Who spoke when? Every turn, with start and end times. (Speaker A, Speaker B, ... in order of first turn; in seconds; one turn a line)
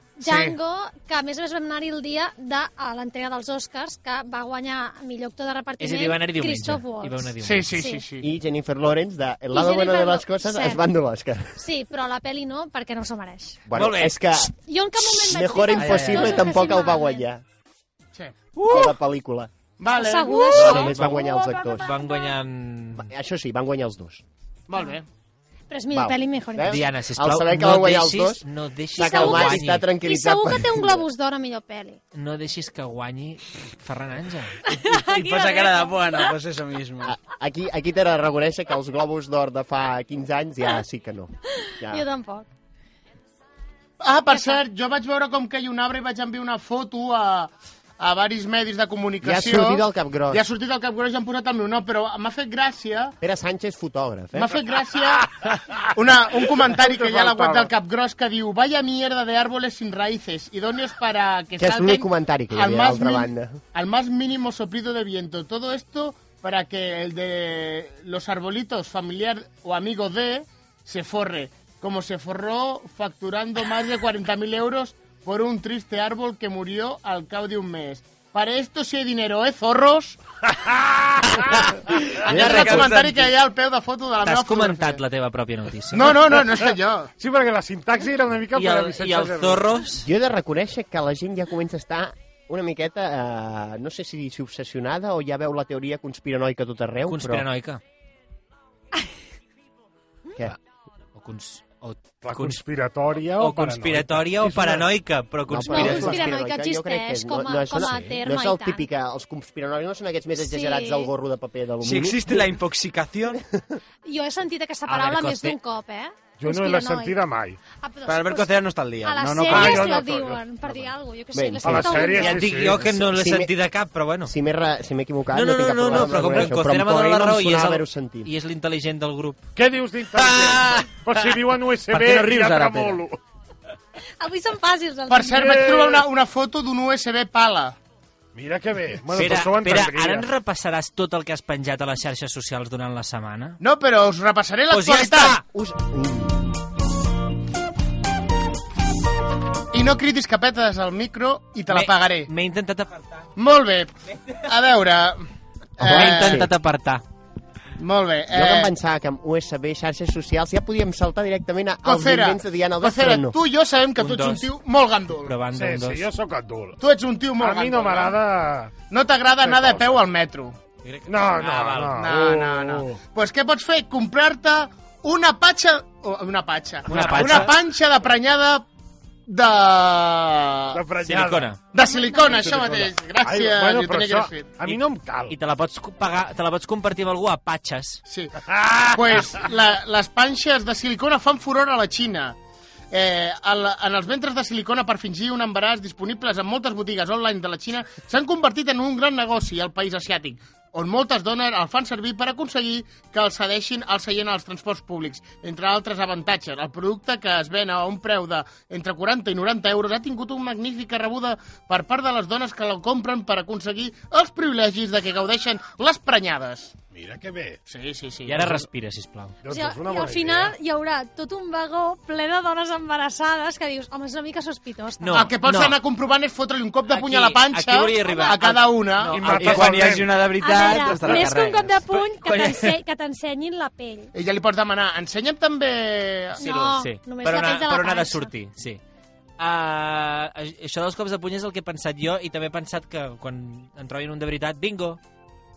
Speaker A: 0.2-8.0
Speaker B: 0.2-0.6
Speaker C: 5.8-7.8
Speaker B: 7.4-8.3
Speaker D: 8.2-11.6
Speaker A: 9.5-10.8
Speaker A: 11.6-13.6
Speaker D: 13.6-17.4
Speaker C: 13.7-14.2
Speaker A: 14.6-17.2
Speaker E: 15.8-16.6
Speaker B: 18.1-18.4
Speaker D: 18.6-19.5
Speaker B: 19.8-21.3
Speaker A: 19.9-20.9
Speaker D: 20.5-21.9
Speaker C: 20.6-23.1
Speaker A: 21.8-22.2
Speaker D: 22.9-24.2
Speaker B: 24.7-25.1
Speaker A: 25.7-26.8
Speaker D: 25.9-31.1
Speaker C: 26.7-29.9
Speaker A: 29.0-32.0
Speaker C: 32.1-34.7
Speaker A: 34.7-36.3
Speaker E: 34.9-37.1
Speaker D: 37.0-42.0
Speaker A: 41.6-42.5
Speaker B: 44.0-53.1
Speaker A: 44.3-44.6
Speaker D: 49.2-50.4
Speaker D: 53.2-54.6
Speaker B: 54.3-55.3
Speaker F: 55.2-55.9
Speaker B: 55.9-80.2
Speaker F: 56.5-57.7
Speaker D: 61.6-63.6
Speaker F: 80.6-81.4
Speaker B: 81.3-85.0
Speaker D: 82.3-83.1
Speaker C: 82.5-82.8
Speaker C: 84.2-86.3
Speaker B: 85.9-87.1
Speaker F: 87.2-89.8
Speaker C: 88.5-90.1
Speaker D: 90.0-97.5
Speaker C: 97.1-97.8
Speaker C: 101.1-102.6
Speaker F: 102.2-104.9
Speaker C: 103.3-106.3
Speaker D: 105.5-112.5
Speaker A: 105.7-108.8
Speaker C: 107.8-108.2
Speaker A: 110.4-111.1
Speaker E: 111.8-113.4
Speaker D: 113.4-113.8
Speaker A: 114.0-117.2
Speaker C: 114.9-115.6
Speaker F: 116.4-117.6
Speaker A: 117.8-122.4
Speaker E: 118.0-119.9
Speaker F: 119.5-120.9
Speaker D: 121.3-122.2
Speaker F: 121.6-122.9
Speaker C: 122.0-124.3
Speaker D: 122.9-123.5
Speaker D: 124.2-128.3
Speaker C: 125.3-129.4
Speaker F: 129.6-133.2
Speaker C: 130.3-131.2
Speaker E: 131.9-133.0
Speaker A: 134.2-135.6
Speaker B: 135.1-137.8
Speaker F: 135.3-136.0
Speaker F: 138.3-140.3
Speaker C: 139.1-143.6
Speaker B: 143.6-145.4
Speaker C: 144.7-145.4
Speaker D: 145.4-146.5
Speaker B: 149.7-152.3
Speaker C: 151.7-153.3
Speaker B: 153.4-155.2
Speaker B: 155.8-156.5
Speaker D: 155.8-156.5
Speaker C: 155.8-157.0
Speaker B: 157.8-158.7
Speaker D: 158.3-163.4
Speaker B: 161.8-165.4
Speaker C: 164.0-164.5
Speaker C: 165.2-166.0
Speaker F: 165.5-166.8
Speaker B: 166.8-168.2
Speaker F: 167.4-168.7
Speaker B: 168.9-170.6
Speaker F: 169.4-170.0
Speaker C: 170.8-172.0
Speaker F: 171.1-173.0
Speaker B: 172.0-178.7
Speaker C: 176.8-177.6
Speaker E: 176.9-177.5
Speaker B: 179.3-180.8
Speaker F: 180.7-181.5
Speaker C: 181.0-181.6
Speaker B: 181.7-184.5
Speaker A: 181.8-182.6
Speaker F: 182.2-185.3
Speaker C: 184.6-188.0
Speaker B: 188.1-192.3
Speaker F: 188.4-189.3
Speaker B: 192.9-216.7
Speaker F: 216.9-217.6
Speaker B: 217.7-218.6
Speaker C: 218.2-219.3
Speaker F: 219.4-220.5
Speaker A: 219.5-225.3
Speaker C: 225.0-225.8
Speaker B: 225.1-229.3
Speaker C: 226.9-229.8
Speaker A: 228.0-228.4
Speaker F: 229.1-230.2
Speaker E: 229.3-231.8
Speaker A: 230.4-234.1
Speaker F: 230.8-231.2
Speaker C: 232.0-232.7
Speaker B: 234.1-236.4
Speaker A: 236.4-238.3
Speaker C: 236.4-238.8
Speaker C: 239.4-245.0